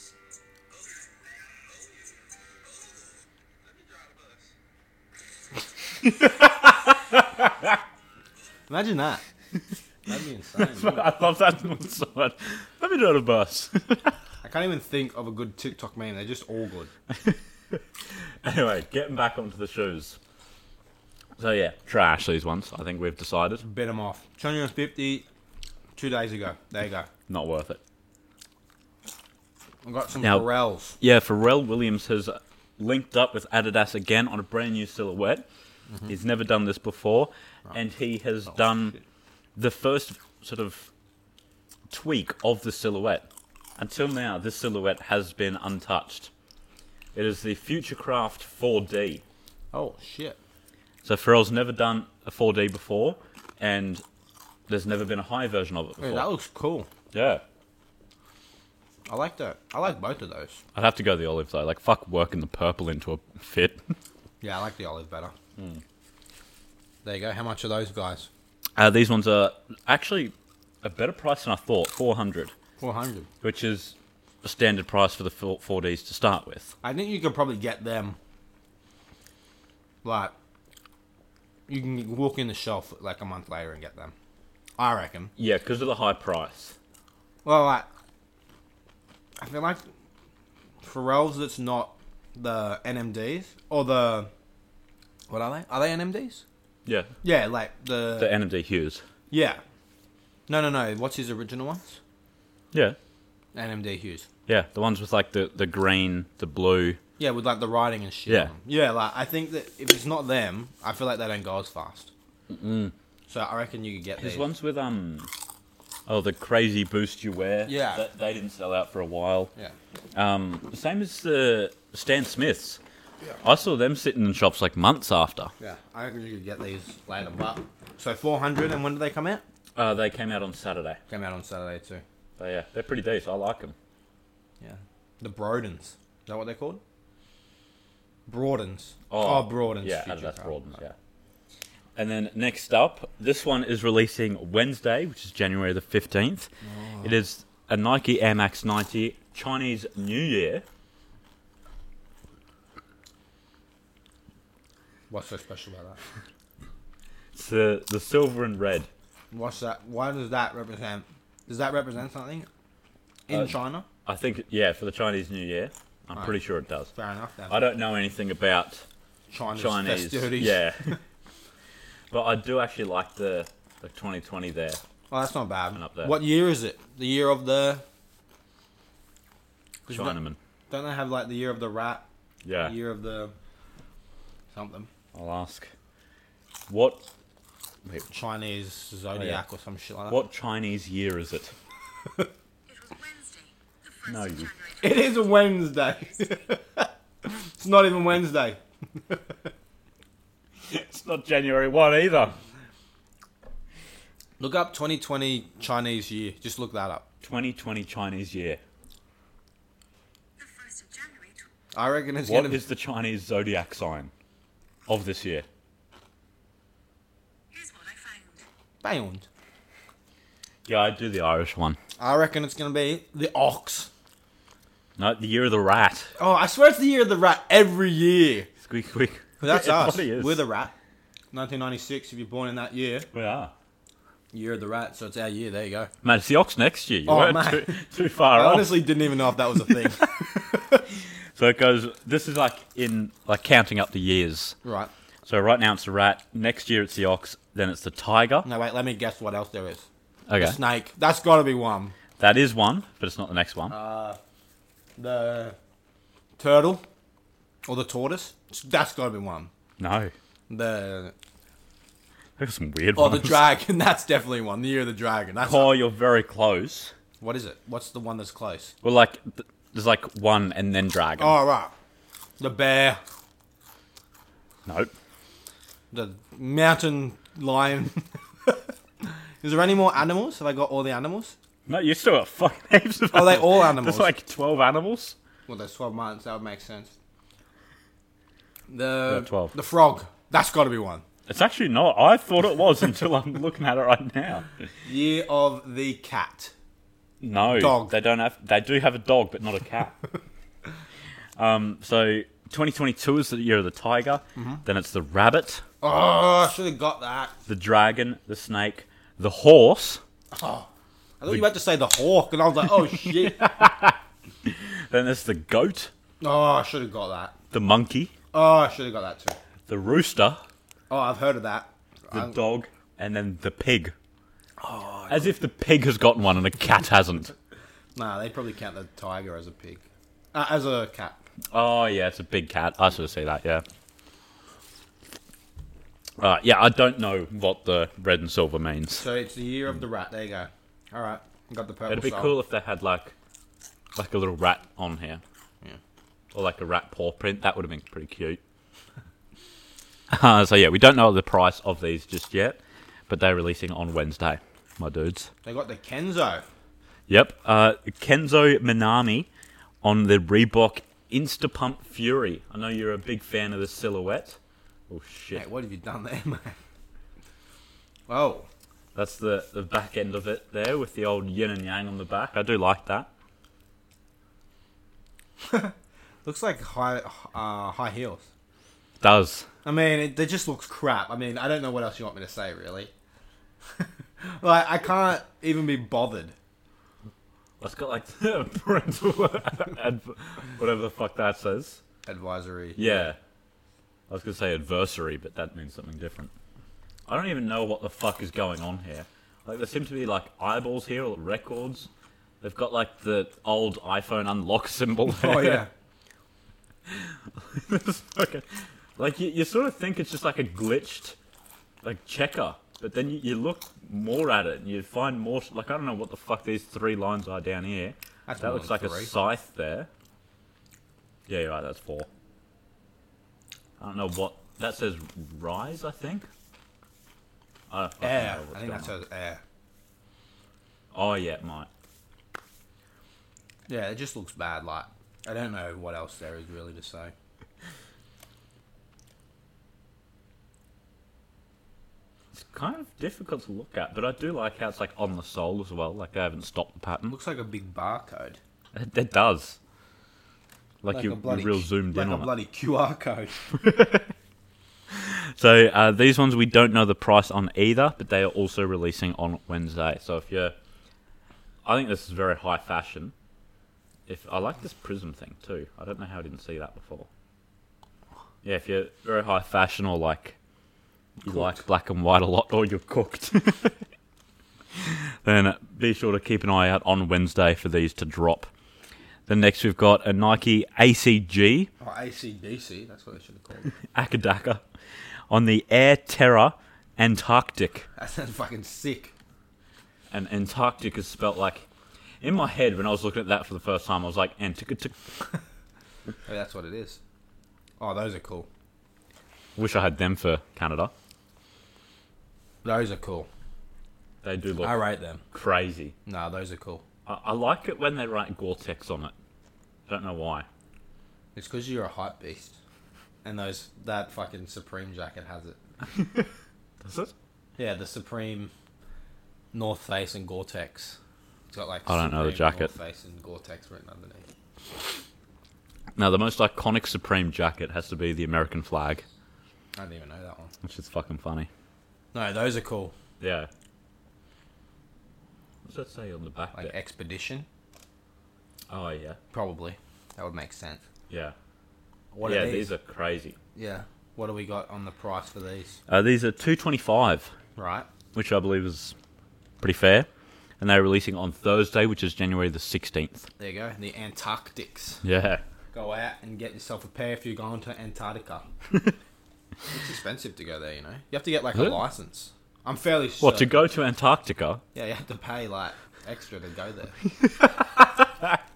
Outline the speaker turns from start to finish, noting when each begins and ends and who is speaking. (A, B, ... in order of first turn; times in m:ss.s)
0:06.0-0:07.8 A
0:08.7-0:09.2 B
0:10.0-0:11.1 B
0:10.6-0:14.1 A
0:14.4-0:16.9 B
0:17.2-0:20.2 A
0:21.4-0:23.6 A
0:23.6-0:25.2 B
0:26.0-0:27.1 B
0:27.3-0:27.8 A
0:29.8-0:31.0 B
0:30.2-0:30.5 A
0:31.0-0:35.4 A
0:36.1-0:39.0 A
0:39.6-0:40.9 A
0:41.9-0:46.3 A
0:47.1-0:49.2 A
0:49.7-0:50.4 B
0:51.0-0:54.0 A
0:54.7-0:56.3 A
0:56.0-0:56.9 B
0:57.1-0:57.4 A
0:59.1-1:00.6 B
1:00.7-1:03.9 A
1:04.4-1:05.3 B
1:05.6-1:05.8 A
1:07.0-1:08.3 B
1:08.8-1:12.5 A
1:12.8-1:13.3 B
1:13.4-1:16.7 A
1:16.8-1:18.2 B
1:20.0-1:20.3 B
1:21.7-1:24.1 B
1:24.8-1:25.3 B
1:25.4-1:26.8 A
1:27.4-1:27.9 B
1:29.4-1:29.8 B
1:30.8-1:34.3 B
1:35.3-1:36.4 B
1:36.8-1:37.1 A
1:37.2-1:38.3 B
1:38.2-1:39.0 A
1:39.3-1:39.6 B
1:40.5-1:42.0 B
1:42.7-1:43.0 A
1:43.5-1:44.3 B
1:44.5-1:47.0 A
1:47.2-1:52.1 B
1:48.3-1:48.5 A
1:52.5-1:52.9 A
1:53.3-1:54.5 B
1:54.2-1:55.3 A
1:56.1-1:59.5 A
1:57.6-1:58.0 B
2:00.1-2:02.8 A
2:03.4-2:05.5 A
2:05.6-2:09.4 B
2:09.7-2:11.0 A
2:11.1-2:12.0 B
2:12.4-2:13.7 A
2:14.6-2:16.8 B
2:18.3-2:20.6 B
2:19.1-2:20.9 A
2:22.0-2:26.5 A
2:26.6-2:27.2 B
2:27.0-2:30.6 A
2:35.1-2:36.0 B
2:37.3-2:38.9 A
2:39.3-2:42.5 B
2:43.3-2:43.8 B
2:44.0-2:46.9 A
2:46.9-2:47.6 B
2:47.5-2:48.8 A
2:49.3-2:51.0 B
2:49.5-2:51.0 A
2:52.1-2:54.8 A
2:55.1-2:57.8 B
2:55.7-2:56.2 A
2:59.9-3:00.2 B
2:59.9-3:00.4 A
3:00.7-3:02.0 B
3:02.4-3:02.8 A
3:02.6-3:03.3 B
3:04.5-3:04.9 B
3:05.1-3:05.7 A
3:06.7-3:07.1 A
3:08.1-3:10.2 B
3:09.2-3:09.4 A
3:10.1-3:11.5 A
3:12.7-3:15.2 C
3:14.0-3:14.5 A
3:14.8-3:19.2 B
3:20.6-3:22.4 A
3:24.4-3:27.0 B
3:27.2-3:28.6 A
3:30.4-3:31.4 C
3:31.7-3:32.6 B
3:32.2-3:34.1 A
3:34.9-3:35.4 A
3:37.5-3:38.4 C
3:38.8-3:39.3 B
3:40.6-3:41.8 A
3:42.0-3:43.9 B
3:45.0-3:46.1 A
3:46.2-3:48.5 B
3:48.6-3:50.4 A
3:49.4-3:50.7 B
3:51.3-3:53.1 B
3:53.1-3:53.5 A
3:54.3-3:55.9 B
3:56.0-3:58.8 A
3:57.0-3:57.8 B
3:58.3-4:00.8 B
4:01.3-4:04.6 A
4:04.6-4:04.9 B
4:05.2-4:08.5 A
4:08.4-4:09.8 B
4:10.3-4:10.6 A
4:10.4-4:12.0 B
4:12.2-4:13.7 A
4:13.7-4:14.2 B
4:15.0-4:15.6 B
4:16.4-4:16.8 B
4:17.7-4:19.5 B
4:19.8-4:20.1 A
4:20.5-4:21.1 B
4:22.4-4:23.5 A
4:23.0-4:25.7 B
4:25.4-4:26.9 A
4:27.2-4:28.7 B
4:28.8-4:31.4 A
4:31.2-4:31.7 B
4:32.4-4:33.0 B
4:34.6-4:34.9 A
4:35.9-4:41.4 B
4:41.7-4:45.2 A
4:43.1-4:44.1 B
4:45.5-4:46.9 B
4:48.7-4:51.0 B
4:49.1-4:49.5 A
4:51.3-4:54.5 A
4:54.8-4:56.5 B
4:57.2-5:00.0 A
4:57.6-4:57.9 B
5:01.4-5:05.6 A
5:04.4-5:04.6 B
5:05.8-5:07.4 B
5:07.5-5:10.0 A
5:10.3-5:10.7 B
5:11.2-5:13.6 B
5:13.0-5:15.9 A
5:16.2-5:17.3 B
5:17.5-5:18.1 A
5:18.3-5:19.4 B
5:19.7-5:20.4 A
5:20.9-5:22.4 B
5:22.1-5:23.9 A
5:24.6-5:25.3 B
5:25.1-5:27.3 A
5:27.9-5:31.2 B
5:31.5-5:33.6 A
5:36.2-5:39.0 A
5:39.0-5:42.4 B
5:41.9-5:43.1 A
5:43.9-5:45.2 A
5:46.3-5:48.4 A
5:50.1-5:55.3 A
5:55.4-5:56.4 B
5:57.1-5:59.3 A
5:59.8-6:04.4 A
6:04.9-6:05.4 A
6:05.3-6:06.6 B
6:08.1-6:08.5 B
6:08.9-6:13.1 A
6:15.5-6:15.7 B
6:16.2-6:18.2 B
6:19.0-6:19.5 A
6:19.6-6:22.9 B
6:23.8-6:26.3 B
6:27.6-6:31.8 A
6:32.0-6:33.1 B
6:32.8-6:33.2 A
6:34.1-6:36.3 A
6:37.1-6:41.9 A
6:42.4-6:45.6 A
6:45.1-6:45.7 B
6:46.8-6:51.2 A
6:51.8-6:59.9 A
6:58.3-6:59.1 B
7:01.3-7:02.1 A
7:03.8-7:06.3 A
7:07.7-7:08.9 A
7:08.0-7:09.4 B
7:10.9-7:11.7 A
7:13.7-7:17.1 B
7:22.3-7:27.1 A
7:27.1-7:28.4 B
7:28.7-7:29.6 A
7:30.8-7:32.3 A
7:30.9-7:33.4 B
7:33.5-7:34.1 A
7:34.9-7:40.5 A
7:41.6-7:43.1 A
7:44.1-7:47.1 A
7:48.4-7:50.4 A
7:51.2-7:53.8 A
7:54.7-7:58.5 A
7:59.3-8:01.7 A
8:01.8-8:03.7 B
8:03.9-8:04.6 A
8:05.3-8:07.9 A
8:08.0-8:09.1 B
8:10.1-8:11.7 A
8:12.2-8:15.1 A
8:16.2-8:17.0 B
8:17.8-8:18.5 B
8:19.6-8:20.9 A
8:22.6-8:23.3 B
8:24.2-8:24.8 A
8:24.6-8:25.2 B
8:25.3-8:25.9 A
8:26.0-8:26.8 B
8:27.0-8:29.1 A
8:29.9-8:30.4 A
8:31.3-8:32.6 B
8:33.2-8:35.6 B
8:36.8-8:37.1 A
8:37.6-8:38.5 B
8:39.5-8:41.0 B
8:41.5-8:44.2 B
8:41.9-8:42.7 A
8:46.0-8:49.0 A
8:49.8-8:50.5 B
8:50.6-8:51.5 A
8:52.1-8:52.9 B
8:53.2-8:53.5 A
8:55.6-8:56.7 A
8:56.5-8:57.4 B
8:58.7-8:59.2 A
8:59.3-9:00.8 B
9:01.1-9:01.3 A
9:02.1-9:02.7 B
9:02.2-9:03.4 A
9:03.5-9:05.8 B
9:05.9-9:07.3 A
9:07.6-9:07.9 B
9:08.1-9:08.9 A
9:09.6-9:10.1 A
9:10.6-9:13.3 A
9:13.4-9:15.0 B
9:15.0-9:15.4 A
9:15.7-9:18.4 B
9:19.7-9:23.6 B
9:23.2-9:24.6 A
9:24.7-9:27.0 B